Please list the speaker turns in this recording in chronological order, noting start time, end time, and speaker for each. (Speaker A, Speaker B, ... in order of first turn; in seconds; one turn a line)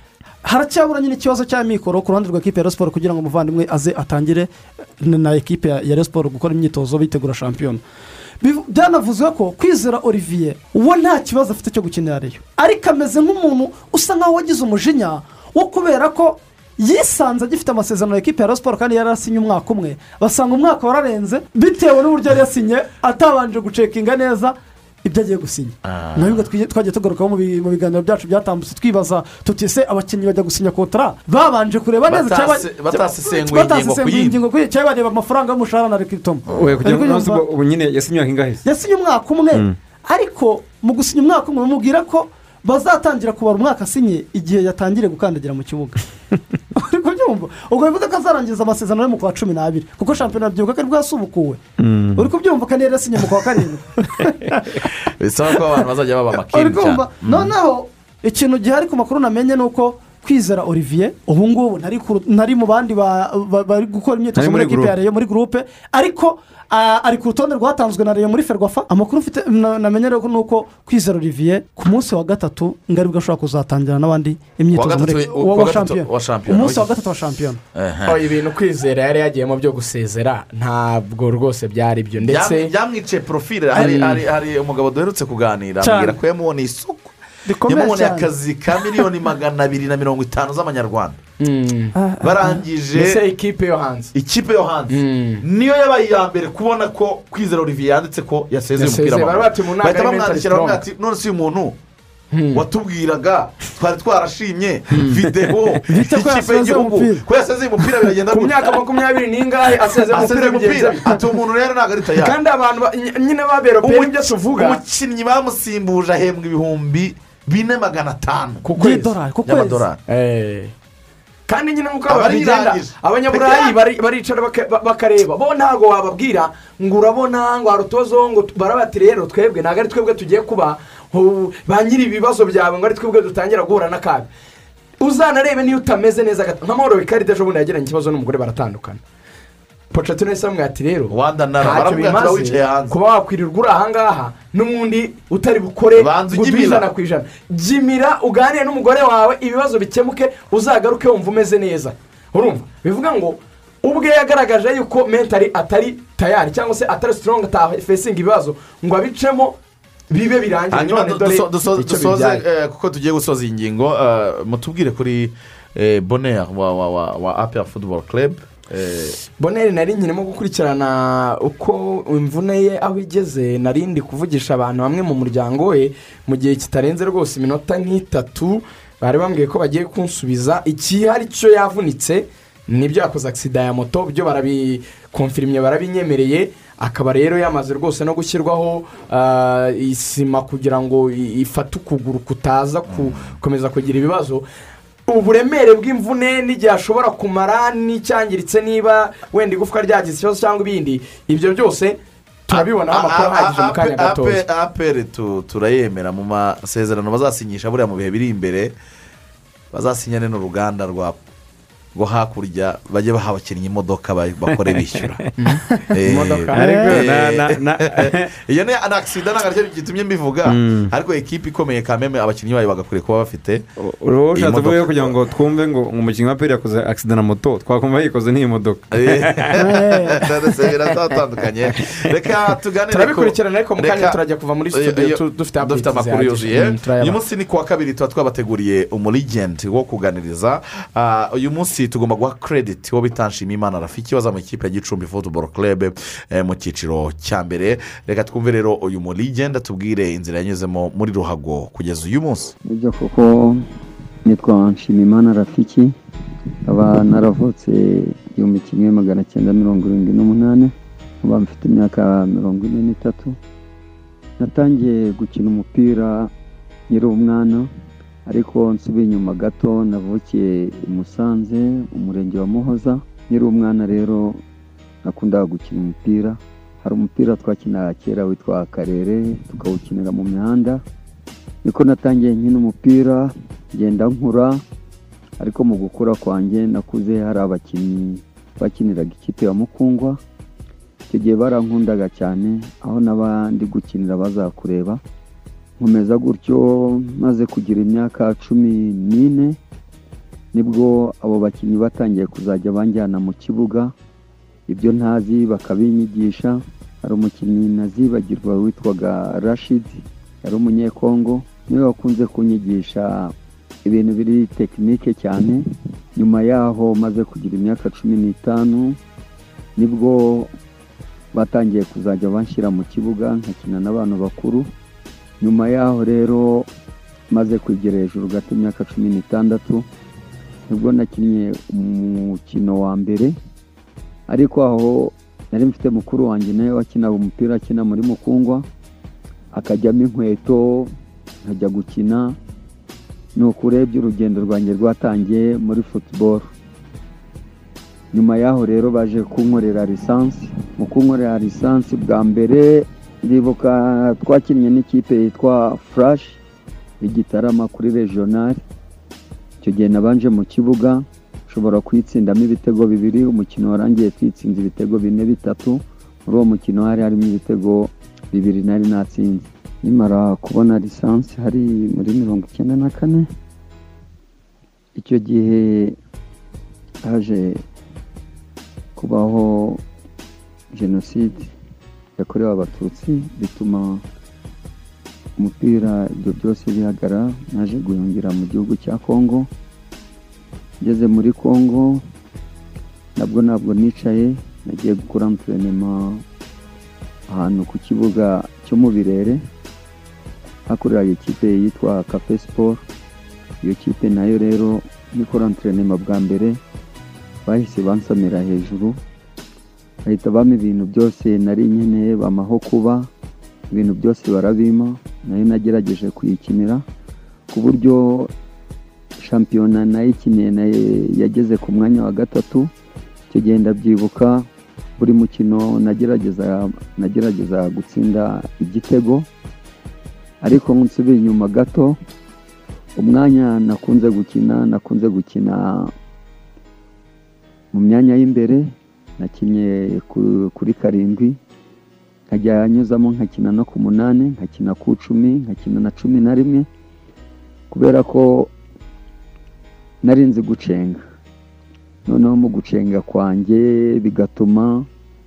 Speaker A: 0.4-4.5
Speaker A: 5.0-7.8
Speaker A: 8.4-37.4
Speaker B: 25.8-26.4
Speaker B: 32.0-34.4
Speaker C: 36.5-38.6
Speaker A: 38.6-46.0
Speaker A: 46.7-51.6
Speaker C: 51.8-52.3
Speaker A: 52.2-54.0
Speaker B: 55.2-57.5
Speaker A: 56.5-77.6
Speaker C: 64.3-64.9
Speaker B: 74.7-76.9
Speaker B: 77.7-78.2
Speaker D: 78.0-82.7
Speaker B: 82.2-87.1
Speaker D: 83.7-84.2
Speaker A: 85.8-86.2
Speaker A: 87.5-89.0
Speaker B: 87.7-91.2
Speaker D: 91.4-91.9
Speaker A: 92.0-92.6
Speaker B: 92.2-93.2
Speaker D: 92.9-94.1
Speaker B: 94.1-101.8
Speaker D: 94.9-95.4
Speaker D: 98.8-100.8
Speaker D: 102.3-102.6
Speaker B: 102.5-108.7
Speaker D: 104.9-105.2
Speaker A: 105.9-107.2
Speaker D: 108.3-111.2
Speaker B: 109.7-112.3
Speaker D: 112.2-114.8
Speaker B: 113.8-118.6
Speaker D: 118.6-119.2
Speaker A: 118.8-119.8
Speaker B: 119.4-120.0
Speaker D: 120.1-120.7
Speaker D: 121.5-134.3
Speaker B: 122.1-123.8
Speaker D: 135.0-139.0
Speaker D: 139.9-159.6
Speaker B: 141.1-142.9
Speaker B: 145.9-146.9
Speaker D: 160.1-162.4
Speaker B: 160.7-169.2
Speaker D: 169.4-194.4
Speaker B: 192.9-193.3
Speaker D: 195.1-204.4
Speaker B: 202.5-208.7
Speaker B: 209.7-211.2
Speaker B: 211.9-215.2
Speaker C: 214.6-215.2
Speaker D: 215.4-216.9
Speaker B: 215.9-223.6
Speaker C: 216.5-218.3
Speaker C: 220.4-220.9
Speaker C: 223.8-229.6
Speaker B: 224.3-225.1
Speaker B: 228.9-234.2
Speaker A: 229.6-230.3
Speaker D: 232.9-237.2
Speaker B: 234.7-252.5
Speaker E: 252.6-253.6
Speaker E: 254.2-255.9
Speaker E: 256.7-263.4
Speaker E: 264.4-266.3
Speaker E: 266.9-267.7
Speaker E: 268.3-274.4
Speaker E: 275.0-280.8
Speaker E: 281.6-284.6
Speaker E: 285.4-290.2
Speaker E: 291.1-295.0
Speaker E: 295.8-299.6
Speaker E: 300.5-303.9
Speaker E: 304.7-313.3
Speaker E: 313.8-315.6
Speaker E: 316.1-319.0
Speaker E: 319.8-320.5
Speaker E: 321.3-324.7
Speaker E: 325.4-326.7
Speaker E: 327.3-329.8
Speaker E: 330.7-333.3
Speaker E: 334.3-338.6
Speaker E: 339.5-340.9
Speaker E: 341.5-342.4
Speaker E: 343.4-346.5
Speaker E: 348.1-356.4
Speaker E: 357.0-358.6
Speaker E: 359.6-373.3
Speaker E: 374.9-375.9
Speaker E: 377.0-377.6
Speaker E: 378.9-379.8
Speaker E: 380.7-381.5
Speaker E: 382.2-384.0
Speaker E: 385.4-389.5
Speaker E: 390.8-392.0
Speaker E: 393.1-396.2
Speaker E: 397.3-399.4
Speaker E: 400.7-402.8
Speaker E: 403.6-406.6
Speaker E: 407.4-409.0
Speaker E: 410.0-413.1
Speaker E: 413.7-416.8
Speaker E: 417.5-418.3
Speaker E: 419.2-422.7
Speaker E: 423.3-424.4
Speaker E: 425.0-429.2
Speaker E: 430.4-431.9
Speaker E: 433.0-435.9
Speaker E: 437.7-441.4
Speaker E: 442.3-446.7
Speaker E: 447.7-448.5
Speaker E: 450.0-451.0
Speaker E: 452.1-454.9